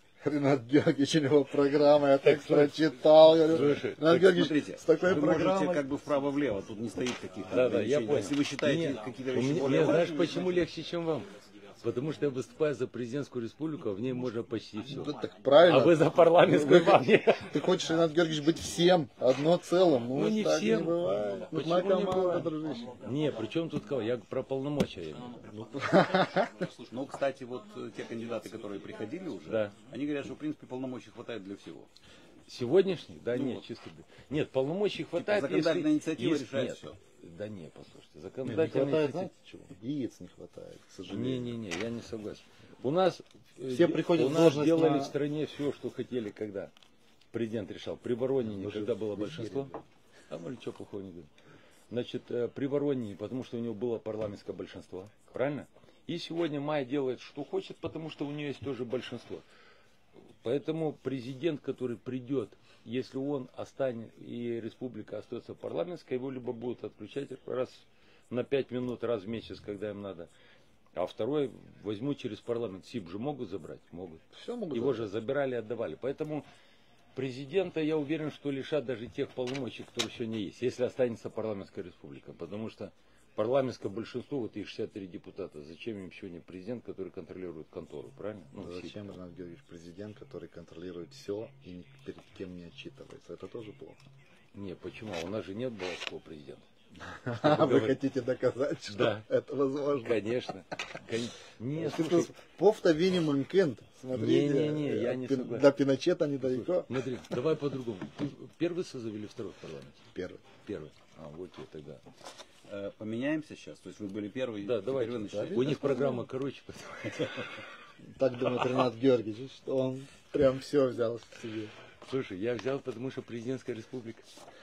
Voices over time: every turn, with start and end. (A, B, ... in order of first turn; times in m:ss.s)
0:00.2-0:05.9 A
0:02.2-0:04.3 B
0:04.0-0:10.6 C
0:07.5-0:17.5 B
0:14.9-0:23.0 A
0:20.1-0:21.0 B
0:21.5-0:25.5 B
0:25.5-0:26.7 A
0:26.8-0:31.9 C
0:29.5-0:29.7 B
0:32.5-0:39.3 B
0:33.3-0:33.6 C
0:35.2-0:37.0 C
0:38.4-0:41.6 A
0:41.1-0:46.7 B
0:43.7-0:45.2 A
0:47.3-0:49.7 B
0:48.4-0:49.8 A
0:50.3-0:51.3 B
0:51.9-0:59.4 B
1:00.4-1:10.3 B
1:10.9-1:16.4 B
1:14.3-1:15.1 A
1:17.1-1:29.0 B
1:28.6-1:34.0 A
1:34.5-1:36.6 B
1:37.2-1:40.2 A
1:37.3-1:38.0 B
1:38.9-1:39.2 B
1:40.0-1:42.4 B
1:41.8-1:46.9 A
1:44.1-1:45.7 B
1:46.6-1:50.1 B
1:50.1-1:50.4 A
1:50.6-1:52.0 B
1:52.7-1:56.1 C
1:54.6-1:57.4 B
1:55.3-1:55.9 A
1:58.1-2:01.7 A
2:02.0-2:04.2 B